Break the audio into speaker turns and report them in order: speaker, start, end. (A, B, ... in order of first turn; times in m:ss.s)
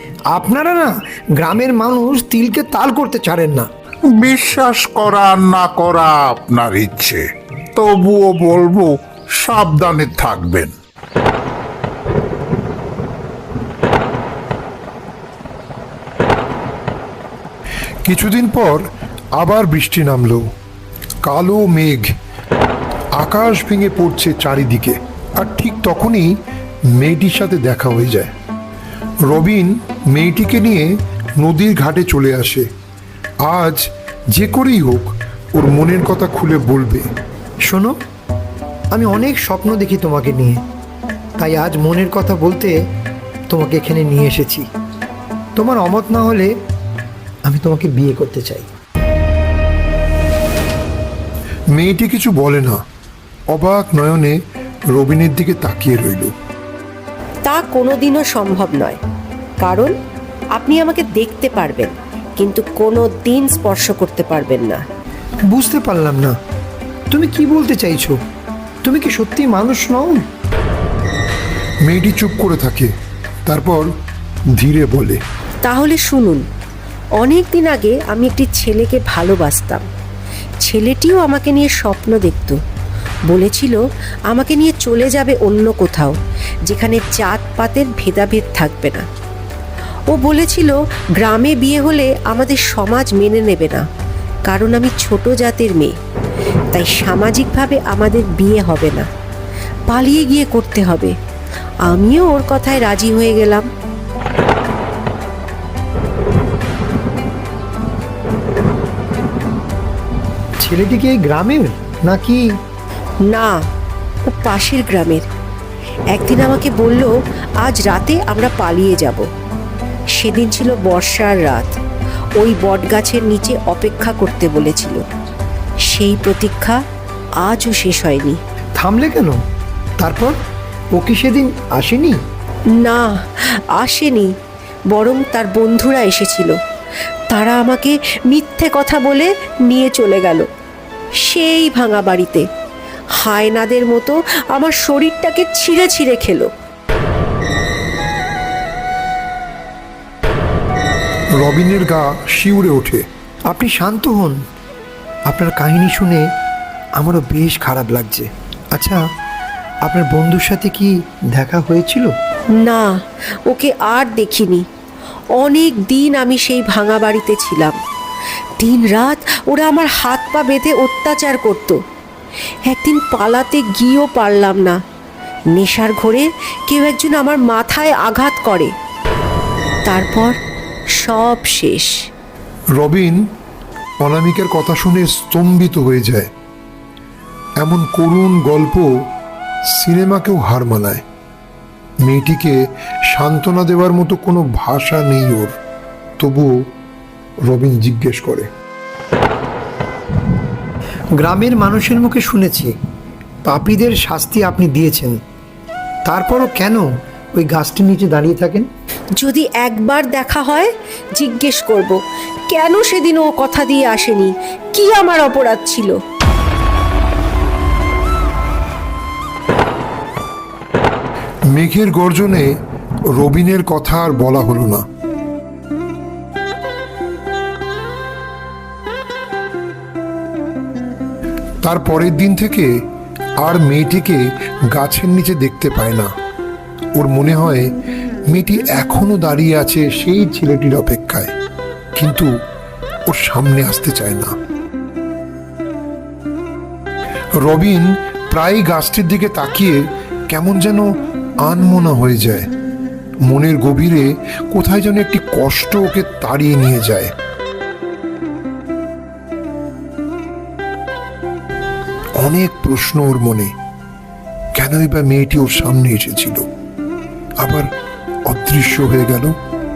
0:00.3-0:03.7 A
0:04.2-0:07.2 B
0:07.8-0:10.7 B
0:18.0-0:18.8 C
0:19.4-0:20.4 C
0:21.2-0:22.1 C
0:23.2-0:26.3 C
0:27.0-0:28.3 C
0:29.2-0:32.7 C
0:33.4-0:33.8 C
0:34.3-0:37.1 C
0:37.7-0:38.0 A
0:38.9-0:40.6 A
0:41.4-0:42.8 A
0:43.5-0:44.7 A
0:45.6-0:46.5 A
0:47.4-0:48.7 A
0:51.7-0:52.8 C
0:53.5-0:54.4 C
0:54.9-0:56.3 C
0:57.4-0:59.0 D
0:59.6-0:59.9 D
1:00.6-1:04.8 D
1:05.5-1:06.3 A
1:07.1-1:08.2 A
1:08.8-1:10.2 A
1:11.8-1:12.9 C
1:13.4-1:13.9 C
1:14.5-1:15.2 C
1:15.6-1:16.4 D
1:17.2-1:19.8 D
1:20.6-1:22.6 D
1:23.3-1:29.0 D
1:30.1-1:33.8 D
1:34.5-1:35.9 D
1:36.7-1:39.1 D
1:39.9-1:41.1 D
1:41.9-1:43.7 D
1:50.6-1:52.4 A
1:53.2-1:53.5 D
1:54.3-1:55.2 D
1:56.1-1:59.2 D
2:00.2-2:01.8 D
2:02.4-2:05.0 D
2:05.9-2:06.8 D
2:07.4-2:08.4 D
2:08.8-2:09.4 A
2:10.0-2:10.4 A
2:10.9-2:12.2 A
2:12.8-2:14.3 D
2:14.9-2:16.6 D
2:17.3-2:20.5 D
2:21.2-2:22.5 D
2:23.2-2:26.5 D
2:31.4-2:33.0 C
2:33.5-2:34.4 A
2:35.3-2:36.2 A
2:37.0-2:39.0 A
2:39.8-2:42.1 A
2:42.5-2:44.6 D
2:45.4-2:47.8 D
2:48.6-2:51.8 D
2:52.6-2:54.8 D
2:55.5-2:58.7 D
2:59.8-3:00.4 D
3:01.0-3:01.9 D
3:02.8-3:03.2 C
3:04.0-3:06.3 C
3:07.6-3:08.9 C
3:09.7-3:11.0 C
3:12.0-3:12.6 C
3:13.1-3:15.6 C
3:16.2-3:16.5 C
3:17.4-3:18.5 C
3:21.2-3:22.7 A
3:23.4-3:25.2 A
3:26.1-3:26.8 A
3:27.4-3:28.7 A
3:29.2-3:36.0 D
3:41.5-3:42.5 C
3:43.1-3:44.8 C
3:51.6-3:52.7 C
3:53.4-3:56.1 C
3:57.0-3:57.7 C
3:58.3-4:01.3 C
4:02.0-4:02.3 C
4:03.1-4:04.3 C
4:07.4-4:10.8 C
4:11.4-4:12.5 C
4:13.3-4:17.1 C
4:22.2-4:23.5 C
4:24.5-4:26.4 C
4:27.4-4:27.7 C
4:28.2-4:29.3 C